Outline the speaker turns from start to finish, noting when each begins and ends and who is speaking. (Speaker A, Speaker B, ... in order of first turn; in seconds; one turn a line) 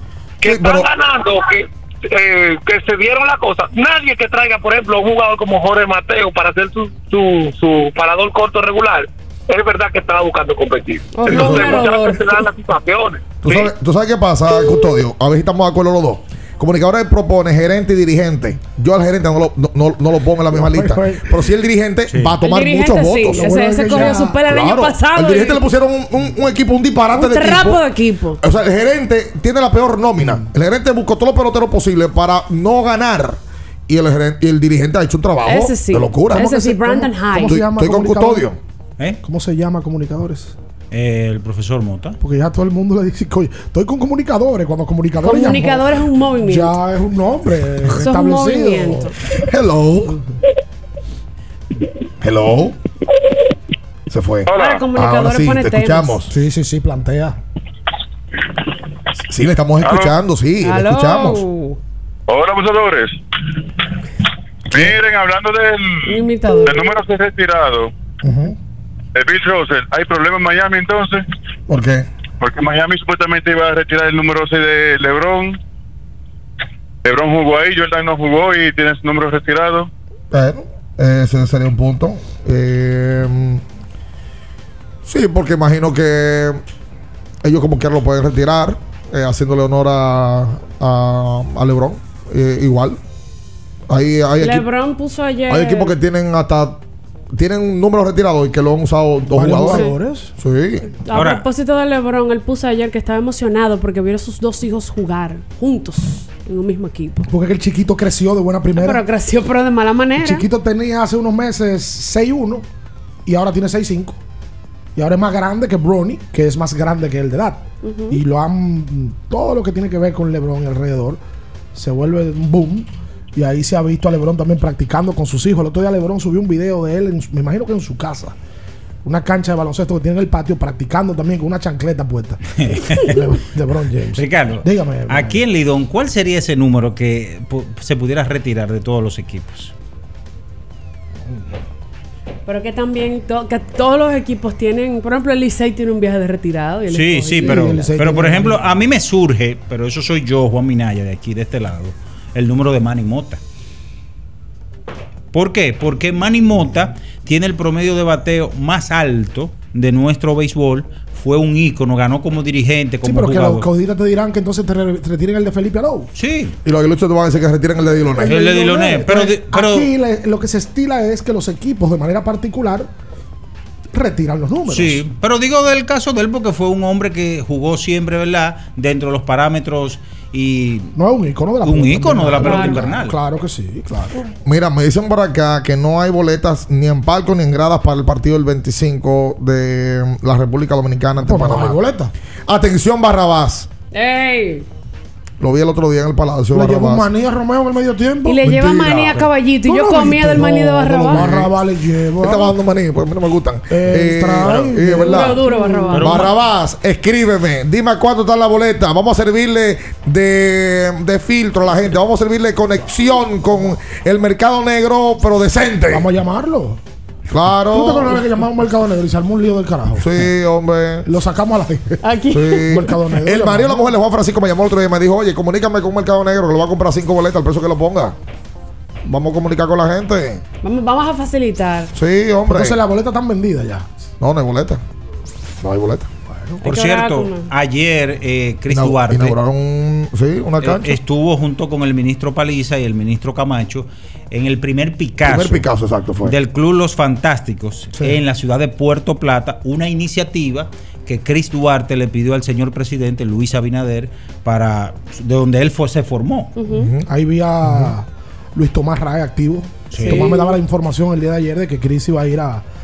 Speaker A: 0.4-13.7
Speaker B: 0.4-0.9
Speaker C: 11.1-12.3
Speaker B: 11.2-11.8
Speaker B: 13.4-27.8
Speaker D: 20.5-21.4
Speaker E: 22.1-22.4
Speaker C: 22.4-25.6
Speaker D: 23.3-24.4
Speaker C: 27.1-28.4
Speaker B: 28.4-38.6
Speaker D: 30.2-30.5
Speaker C: 35.4-37.6
Speaker D: 36.3-38.5
Speaker D: 39.2-40.5
Speaker E: 40.9-42.2
Speaker D: 42.2-49.1
Speaker C: 45.2-46.8
Speaker C: 47.9-49.1
Speaker B: 49.4-50.2
Speaker B: 52.2-52.8
Speaker B: 54.1-56.3
Speaker C: 54.5-56.2
Speaker D: 56.3-57.4
Speaker B: 59.1-61.4
Speaker C: 60.6-61.8
Speaker F: 65.0-65.8
Speaker C: 66.1-66.9
Speaker F: 66.7-67.8
Speaker D: 68.2-68.5
Speaker F: 69.2-71.1
Speaker B: 71.7-72.1
Speaker F: 72.5-75.5
Speaker F: 77.1-79.8
Speaker B: 80.3-83.6
Speaker B: 85.0-86.6
Speaker B: 87.4-93.0
Speaker B: 93.9-94.7
Speaker C: 94.4-95.9
Speaker B: 95.5-96.8
Speaker B: 97.3-100.9
Speaker D: 99.3-100.3
Speaker C: 99.7-99.9
Speaker C: 101.0-107.2
Speaker E: 101.1-101.4
Speaker D: 107.3-109.0
Speaker C: 108.8-110.4
Speaker D: 110.2-112.6
Speaker D: 113.2-114.2
Speaker D: 115.0-121.2
Speaker C: 117.8-118.2
Speaker D: 121.7-128.3
Speaker D: 129.0-135.4
Speaker E: 132.6-133.2
Speaker E: 134.2-139.7
Speaker C: 142.4-147.9
Speaker E: 146.9-153.4
Speaker D: 147.4-148.6
Speaker E: 155.3-163.7
Speaker D: 163.0-166.1
Speaker E: 166.1-166.5
Speaker B: 166.6-168.4
Speaker D: 168.1-172.9
Speaker E: 168.2-169.9
Speaker D: 173.9-175.0
Speaker E: 174.7-180.9
Speaker D: 180.9-184.1
Speaker E: 181.6-183.2
Speaker C: 182.4-182.8
Speaker B: 184.4-191.8
Speaker D: 191.2-192.1
Speaker B: 192.5-193.7
Speaker C: 193.9-194.7
Speaker B: 195.4-197.1
Speaker D: 196.5-202.5
Speaker C: 198.2-201.4
Speaker B: 198.5-199.0
Speaker B: 201.1-201.5
Speaker B: 202.2-205.4
Speaker D: 203.7-206.0
Speaker C: 205.0-206.2
Speaker E: 205.9-206.3
Speaker B: 206.0-216.1
Speaker D: 215.9-216.8
Speaker B: 217.3-218.2
Speaker D: 217.7-220.2
Speaker B: 219.9-221.1
Speaker D: 221.1-222.0
Speaker C: 222.0-222.6
Speaker B: 222.3-228.1
Speaker D: 222.7-223.9
Speaker B: 229.0-230.4
Speaker C: 230.6-231.9
Speaker B: 231.9-232.8
Speaker D: 232.5-233.9
Speaker B: 234.2-234.8
Speaker B: 235.6-236.1
Speaker D: 236.3-236.6
Speaker E: 236.6-239.4
Speaker C: 236.6-237.5
Speaker B: 238.7-241.0
Speaker E: 240.6-245.7
Speaker B: 245.2-246.3
Speaker E: 246.2-256.5
Speaker C: 256.6-256.8
Speaker B: 256.7-257.0
Speaker D: 256.8-262.6
Speaker B: 257.6-257.9
Speaker E: 259.9-260.3
Speaker C: 260.0-260.6